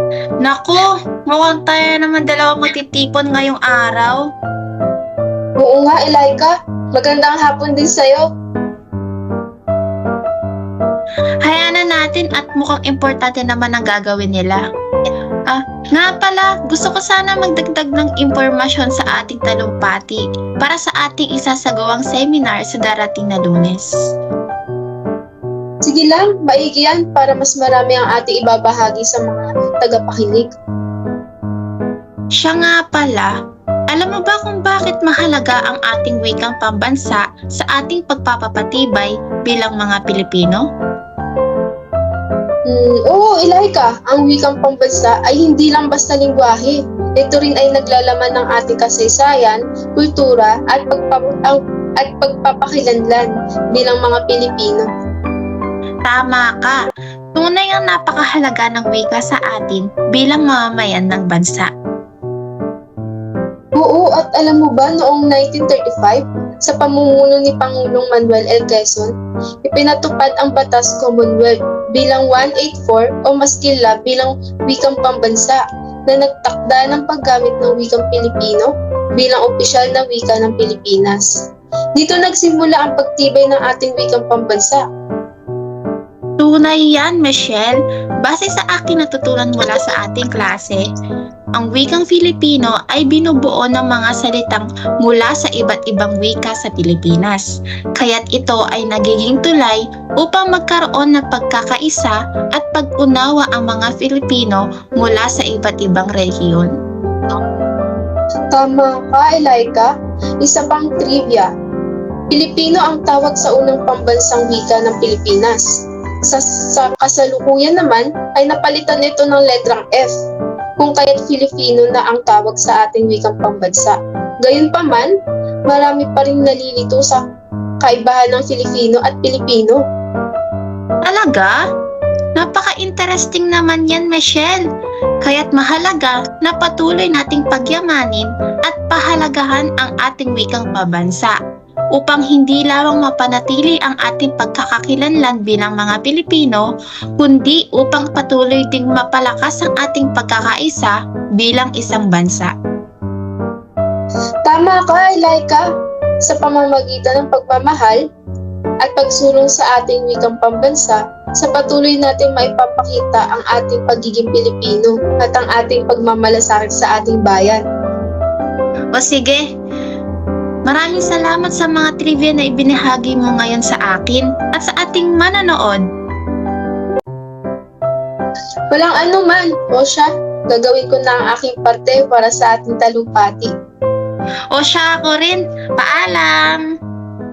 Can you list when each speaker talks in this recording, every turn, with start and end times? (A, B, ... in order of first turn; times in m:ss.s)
0:00.4-0:04.2 A
0:05.6-0:08.3 B
0:11.4-0:14.6 A
0:15.5-0:23.9 A
0:25.8-0:30.5 B
0:32.4-0:33.3 A
0:33.9-0:40.7 A
0:42.7-0:54.9 B
0:56.0-1:01.7 A
1:03.8-1:09.1 B
1:09.6-1:21.4 B
1:22.0-1:24.8 B
1:26.4-1:30.8 A
1:31.6-1:46.7 A
1:48.5-1:49.9 B
1:50.4-1:51.5 B
1:52.3-1:55.7 B
1:56.3-2:00.2 B
2:00.8-2:05.1 B
2:05.7-2:07.2 B
2:07.8-2:09.8 B
2:11.1-2:11.6 A
2:12.4-2:14.7 A
2:15.2-2:21.4 A
2:22.0-2:26.7 A
2:27.2-2:32.5 A
2:34.5-2:35.7 B
2:36.2-2:38.0 B
2:38.8-2:47.6 B
2:48.9-2:49.4 A
2:50.7-2:55.8 A
2:58.7-3:03.5 B
3:04.5-3:06.6 A